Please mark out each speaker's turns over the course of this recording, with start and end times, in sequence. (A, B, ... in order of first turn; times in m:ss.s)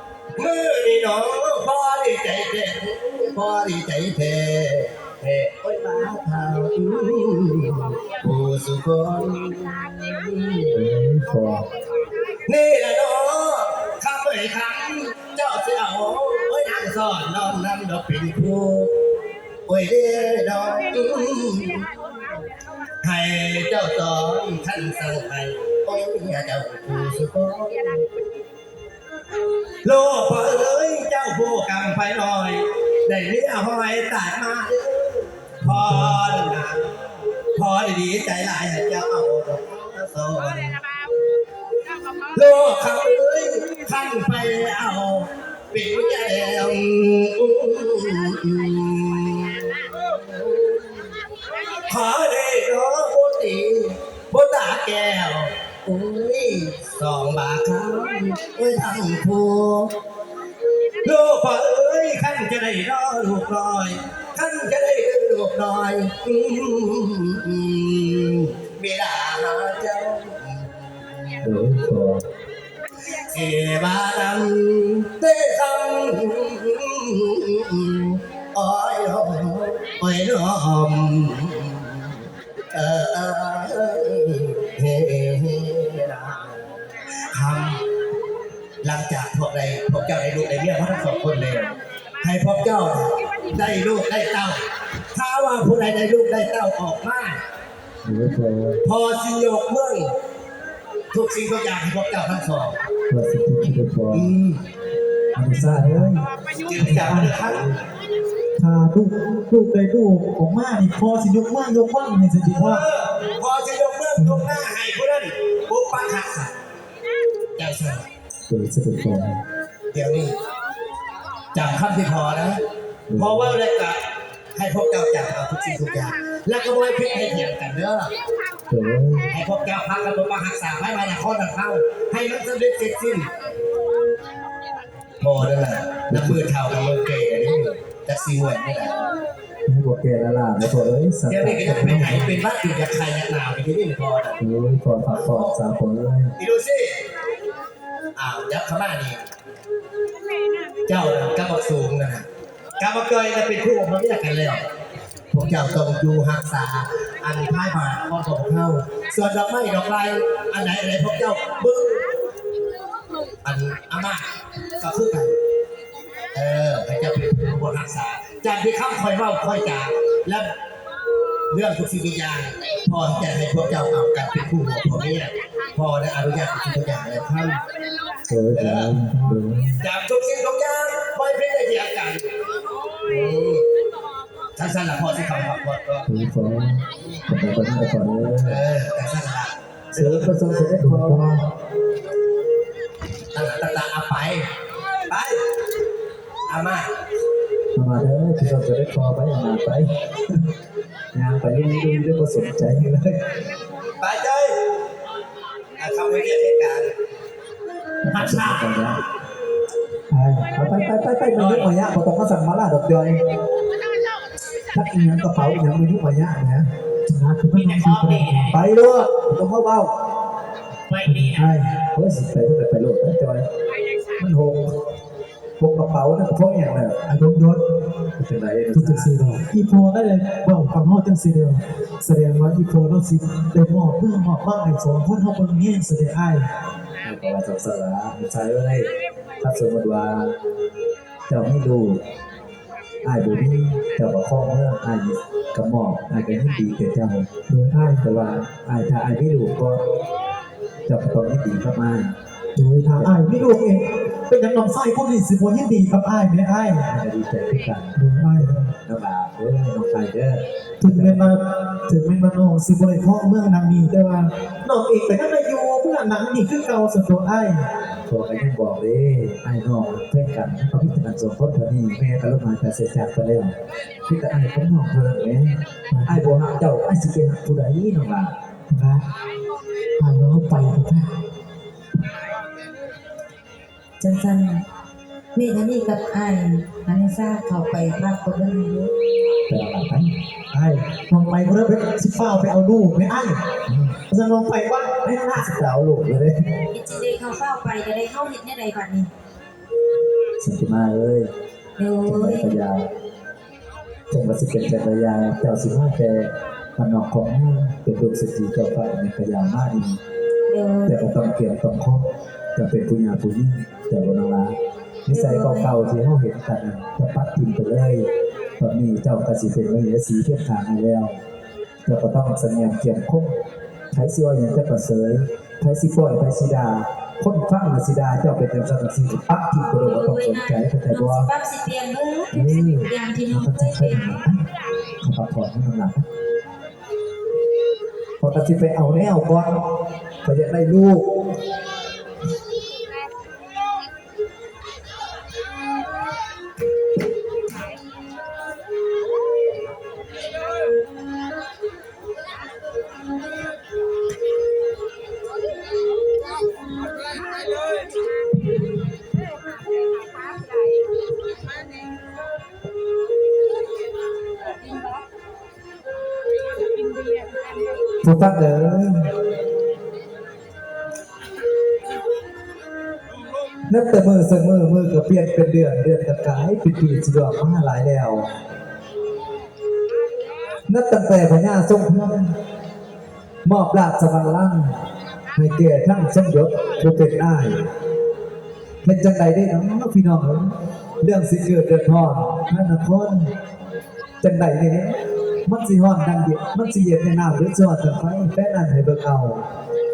0:00.4-0:10.7 A
0:10.7-0:11.7 B
0:12.4-0:18.9 A
0:19.7-0:21.8 A
0:23.0-0:28.0 A
0:29.8-0:36.9 A
0:35.6-0:36.4 B
0:37.6-0:40.8 A
0:42.3-0:51.0 A
0:51.9-0:59.9 A
1:01.0-1:11.5 A
1:11.4-1:12.2 B
1:13.1-1:26.6 A
1:27.1-1:27.8 A
1:28.8-1:34.6 A
1:35.1-1:37.4 A
1:38.0-1:38.8 B
1:38.8-1:40.1 A
1:41.1-1:42.8 A
1:43.1-1:44.3 B
1:44.1-1:44.6 A
1:45.4-1:46.3 B
1:45.7-1:46.2 C
1:46.6-1:47.8 A
1:46.9-1:47.3 C
1:48.6-1:52.8 C
1:52.5-1:56.5 A
1:54.2-1:54.5 C
1:57.6-1:58.1 A
1:58.5-1:59.4 B
1:59.9-2:00.4 A
2:01.5-2:02.6 A
2:03.1-2:03.6 B
2:03.2-2:04.0 A
2:04.6-2:08.1 A
2:08.7-2:09.3 B
2:09.3-2:13.3 A
2:15.2-2:19.0 A
2:16.1-2:16.5 B
2:19.7-2:22.4 B
2:21.3-2:24.4 A
2:24.4-2:26.3 B
2:25.2-2:25.6 A
2:26.4-2:27.0 A
2:28.2-2:29.3 A
2:30.9-2:32.3 A
2:32.8-2:34.6 A
2:35.3-2:42.1 A
2:43.4-2:45.4 A
2:46.3-2:50.5 A
2:51.5-2:57.6 A
2:58.3-2:59.8 B
2:58.5-2:58.9 A
2:59.8-3:02.3 A
3:03.0-3:03.6 A
3:04.6-3:06.1 A
3:06.1-3:08.6 B
3:08.4-3:10.8 A
3:09.9-3:11.4 B
3:10.9-3:11.2 C
3:13.3-3:14.5 A
3:15.1-3:15.4 A
3:16.5-3:16.9 A
3:17.8-3:20.1 B
3:21.1-3:23.2 B
3:24.0-3:24.6 A
3:25.8-3:26.9 A
3:28.0-3:29.0 B
3:28.1-3:28.7 D
3:30.1-3:33.2 B
3:31.4-3:31.7 D
3:34.7-3:36.7 B
3:37.1-3:38.6 C
3:37.5-3:38.5 D
3:38.5-3:39.9 B
3:40.9-3:41.6 D
3:41.1-3:43.5 B
3:44.2-3:44.8 B
3:45.6-3:47.0 B
3:47.1-3:47.6 C
3:48.2-3:49.1 B
3:48.8-3:56.5 C
3:57.0-4:00.4 B
4:01.3-4:02.0 B
4:03.0-4:09.8 B
4:07.5-4:08.0 C
4:10.9-4:12.2 B
4:12.6-4:16.8 C
4:12.9-4:13.5 B
4:16.8-4:21.4 B
4:18.0-4:18.7 C
4:20.8-4:27.7 C
4:28.1-4:33.5 B
4:34.1-4:38.4 B
4:35.9-4:36.3 C
4:38.7-4:39.1 C
4:40.0-4:41.1 C
4:44.0-4:44.6 E
4:45.4-4:48.9 E
4:49.5-4:50.1 B
4:50.5-4:53.4 C
4:53.7-4:54.0 B
4:54.1-4:55.5 C
4:55.3-4:56.5 B
4:56.7-4:59.1 E
5:00.4-5:01.3 B
5:01.8-5:02.5 E
5:02.0-5:02.9 B
5:04.1-5:10.0 B
5:10.5-5:11.0 E
5:10.9-5:21.2 B
5:15.1-5:15.7 E
5:21.8-5:23.4 B
5:23.9-5:31.3 B
5:29.8-5:34.0 E
5:32.3-5:34.5 B
5:35.0-5:36.1 B
5:38.2-5:41.3 B
6:08.0-6:09.1 B
6:13.7-6:18.3 B
6:20.7-6:22.4 B
6:23.4-6:24.8 B
6:25.4-6:27.7 B
6:28.8-6:33.3 B
6:34.2-6:39.5 B